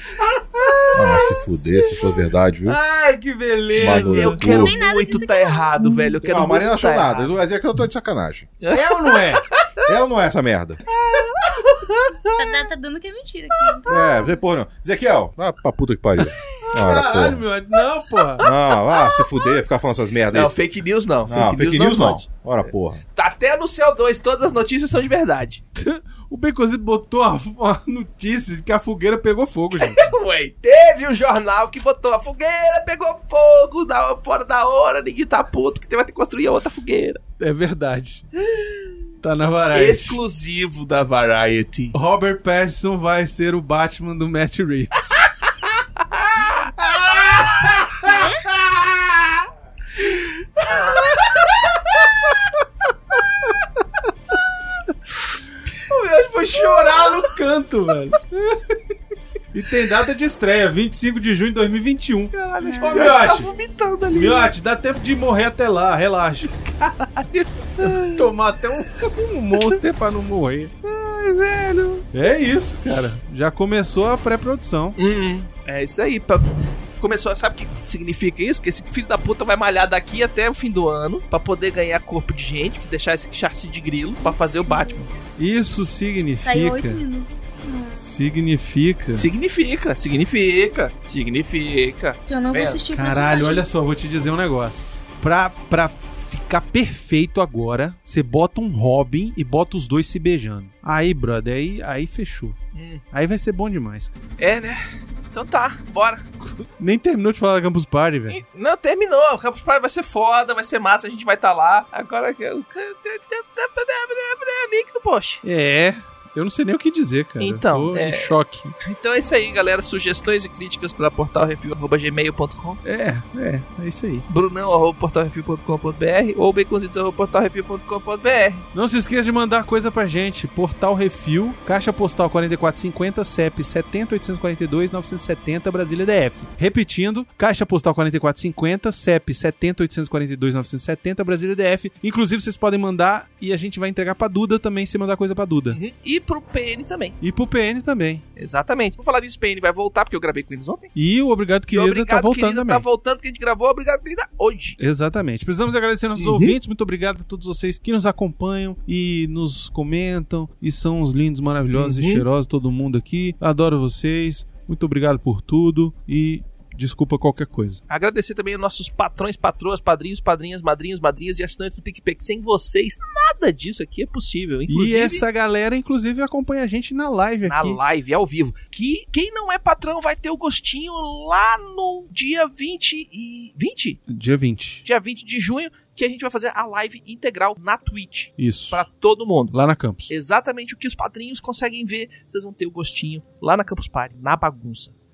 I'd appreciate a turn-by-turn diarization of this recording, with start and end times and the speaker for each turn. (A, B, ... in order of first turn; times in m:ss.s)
0:00.2-0:01.3 A
0:00.9-0:02.8 B
0:02.7-0:04.4 A
0:03.8-0:04.8 B
0:03.8-0:07.3 C
0:04.4-0:06.2 D
0:06.2-0:08.5 B
0:08.6-0:09.8 C
0:08.7-0:09.4 A
0:09.8-0:10.8 B
0:10.9-0:12.7 C
0:12.3-0:14.3 D
0:13.5-0:14.1 C
0:13.8-0:17.4 B
0:16.7-0:18.5 A
0:18.2-0:19.4 C
0:18.4-0:20.5 B
0:20.3-0:22.3 C
0:21.3-0:23.0 B
0:23.2-0:25.6 C
0:25.8-0:30.1 A
0:29.8-0:37.2 C
0:37.4-0:38.3 A
0:38.4-0:39.0 C
0:39.2-0:40.2 A
0:39.7-0:42.0 C
0:41.9-0:45.2 A
0:46.4-0:49.4 A
0:47.3-0:48.2 C
0:50.0-0:51.4 A
0:50.6-0:52.0 C
0:55.9-0:57.4 C
0:56.5-0:58.8 A
0:59.5-1:03.5 A
1:02.3-1:04.5 C
1:02.6-1:04.0 D
1:04.1-1:07.0 A
1:07.1-1:08.3 C
1:07.8-1:10.7 A
1:10.8-1:12.1 C
1:12.1-1:15.0 A
1:15.0-1:25.1 C
1:24.2-1:25.3 D
1:25.4-1:27.0 A
1:26.3-1:28.1 D
1:28.0-1:29.3 A
1:29.2-1:32.9 C
1:32.3-1:33.7 D
1:32.9-1:42.6 A
1:42.7-1:43.0 C
1:43.1-1:44.1 A
1:44.4-1:46.3 C
1:46.4-1:48.4 A
1:48.3-1:55.4 C
1:55.4-1:58.8 A
1:57.4-2:02.8 C
2:02.8-2:04.3 A
2:04.3-2:08.7 C
2:08.7-2:25.8 A
2:25.7-2:27.2 C
2:27.2-2:28.2 A
2:28.4-2:30.9 C
2:31.0-2:32.8 A
2:31.7-2:34.8 C
2:34.8-2:47.8 A
2:36.2-2:36.6 C
2:41.8-2:42.2 C
2:47.9-2:55.2 C
2:54.7-2:57.8 A
2:57.5-3:04.0 C
3:04.1-3:04.8 A
3:04.8-3:09.6 C
3:08.4-3:08.8 A
3:09.5-3:10.1 A
3:10.1-3:14.9 C